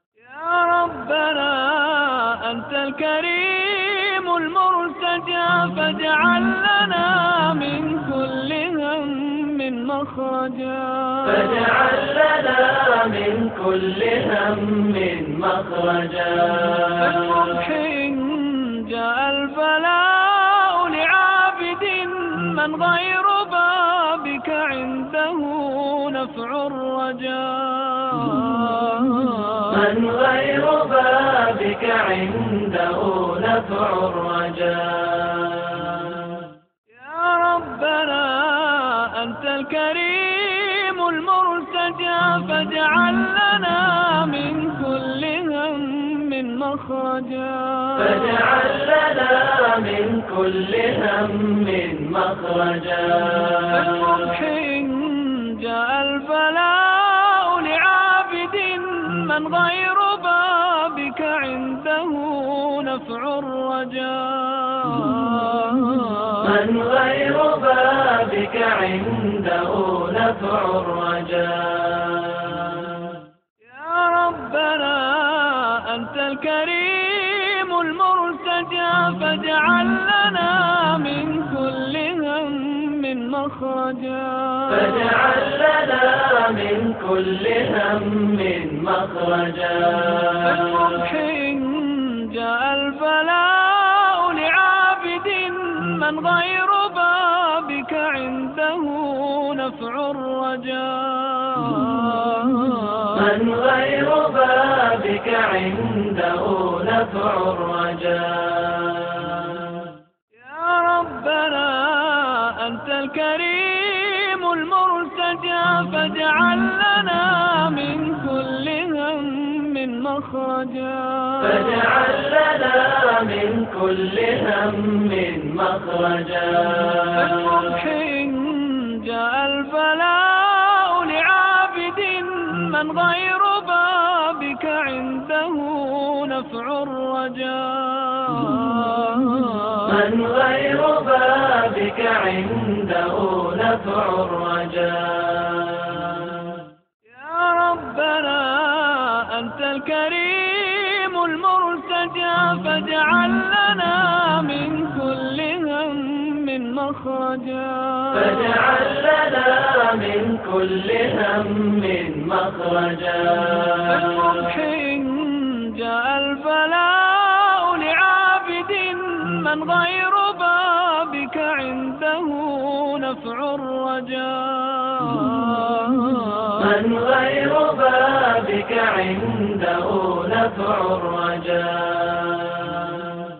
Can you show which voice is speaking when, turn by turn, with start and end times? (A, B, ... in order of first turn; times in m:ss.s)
0:00.2-0:11.7 A
0:11.4-0:16.8 B
0:16.9-0:29.8 A
0:29.7-0:36.4 B
0:36.9-0:48.4 A
0:48.2-0:53.6 B
0:53.6-1:06.6 A
1:06.4-1:13.2 B
1:13.6-1:25.2 A
1:24.9-1:30.3 B
1:30.3-1:43.3 A
1:43.2-1:49.9 B
1:50.3-2:01.9 A
2:01.6-2:07.0 B
2:07.1-2:20.0 A
2:19.9-2:26.6 B
2:27.0-2:38.6 A
2:38.3-2:43.7 B
2:43.8-2:56.8 A
2:56.6-3:03.2 B